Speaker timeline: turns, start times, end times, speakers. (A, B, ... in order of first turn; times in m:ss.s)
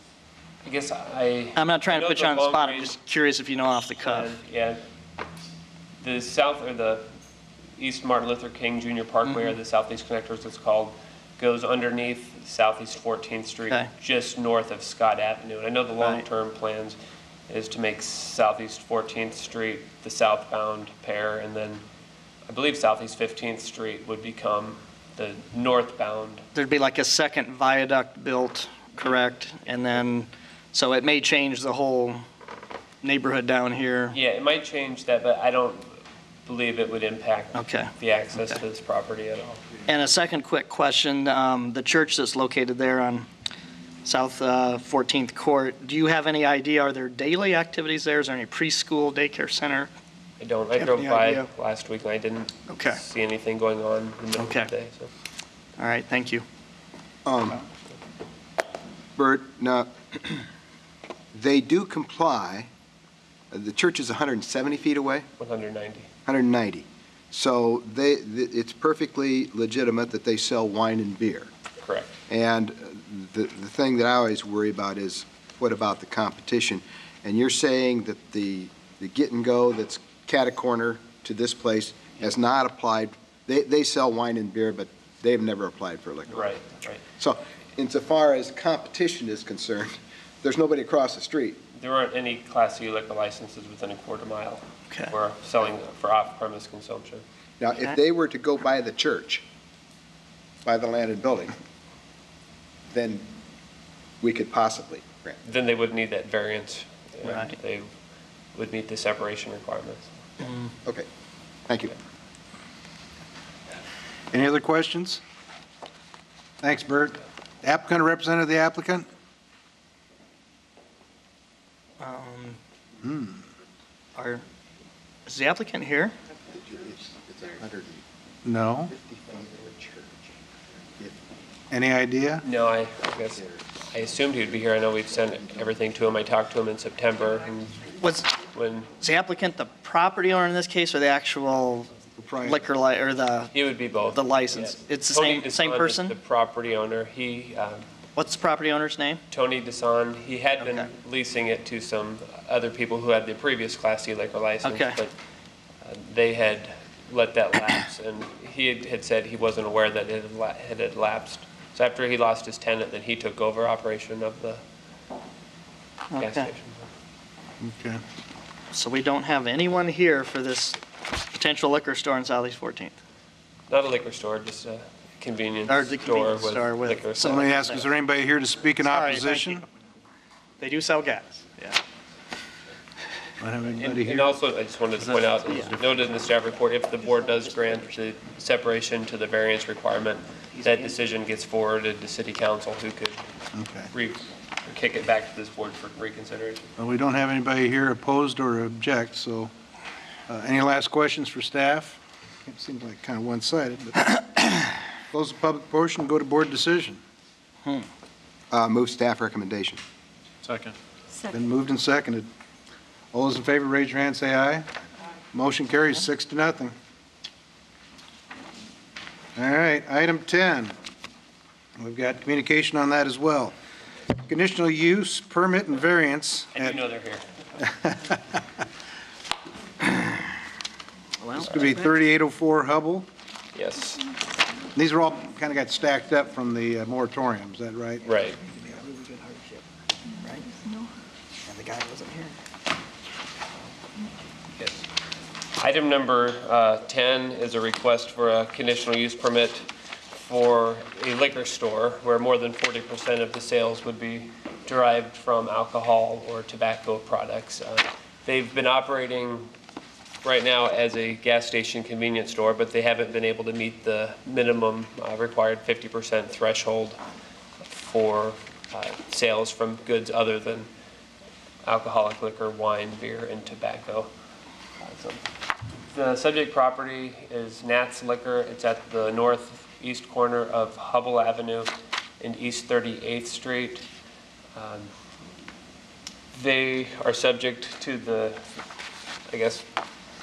0:00.6-0:02.9 A
0:01.6-0:04.3 B
0:04.0-0:04.8 A
0:06.0-0:07.0 A
0:07.8-0:17.0 A
0:09.3-0:09.5 B
0:17.5-0:21.8 A
0:22.5-0:26.4 A
0:26.5-0:32.2 B
0:33.0-0:34.2 B
0:34.1-0:39.6 A
0:37.5-0:38.6 B
0:39.8-0:43.3 B
0:44.0-0:49.9 B
0:50.4-0:55.1 A
0:50.8-0:51.5 B
0:52.7-0:53.0 B
0:54.4-0:54.7 B
0:55.8-0:56.4 B
0:57.2-0:57.6 C
0:59.2-1:00.4 C
1:01.3-1:02.7 C
1:03.5-1:05.2 C
1:05.4-1:06.1 A
1:06.2-1:11.5 C
1:11.8-1:12.1 A
1:12.3-1:26.5 C
1:26.3-1:27.0 A
1:27.2-1:31.6 C
1:31.7-1:37.2 A
1:37.6-1:39.4 C
1:40.6-1:41.5 C
1:42.9-1:43.3 C
1:44.2-1:45.4 C
1:45.4-1:47.9 A
1:47.2-1:47.5 B
1:48.5-1:50.1 A
1:51.7-1:51.9 C
1:54.3-1:55.2 D
1:56.6-1:59.1 D
2:02.0-2:02.6 B
2:03.0-2:03.4 D
2:04.2-2:04.4 B
2:05.3-2:06.1 B
2:06.5-2:08.0 C
2:08.4-2:08.9 D
2:08.9-2:11.2 C
2:11.7-2:12.4 D
2:12.4-2:17.9 A
2:13.4-2:13.6 C
2:18.0-2:18.3 B
2:18.5-2:18.9 A
2:19.0-2:23.5 B
2:22.2-2:22.6 D
2:23.5-2:27.8 A
2:24.1-2:26.2 B
2:28.2-2:29.2 B
2:29.3-2:35.1 A
2:30.6-2:30.9 B
2:34.6-2:35.0 B
2:35.8-2:44.6 A
2:46.1-2:46.5 B
2:46.2-2:46.9 A
2:47.6-2:48.0 D
2:48.7-2:53.0 B
2:53.7-2:57.6 A
2:55.7-2:57.8 B
2:57.2-2:59.6 D
2:58.8-2:59.6 B
3:00.6-3:01.8 B
3:03.4-3:04.3 D
3:03.7-3:13.2 A
3:07.1-3:07.8 B
3:10.5-3:10.9 B
3:13.5-3:13.9 D
3:13.9-3:16.7 A
3:16.8-3:19.5 D
3:20.3-3:27.0 D
3:28.5-3:29.8 C
3:30.4-3:32.3 D
3:33.1-3:34.7 D
3:35.3-3:36.7 D
3:39.3-3:40.8 D
3:41.8-3:43.5 D
3:44.2-3:46.8 D
3:46.5-3:47.2 A
3:47.6-3:48.4 D
3:51.2-3:51.9 B
3:51.4-3:53.1 D
3:53.5-3:54.0 A
3:54.7-3:58.0 D
3:58.0-3:58.4 A
3:58.4-4:00.8 B
4:01.4-4:02.4 B
4:04.6-4:04.8 A
4:05.6-4:19.5 A
4:20.2-4:27.0 A
4:27.6-4:30.7 A
4:31.6-4:34.1 A
4:34.8-4:35.2 A
4:35.9-4:43.8 A
4:44.5-4:44.9 A
4:46.3-4:48.4 A
4:49.3-4:49.6 A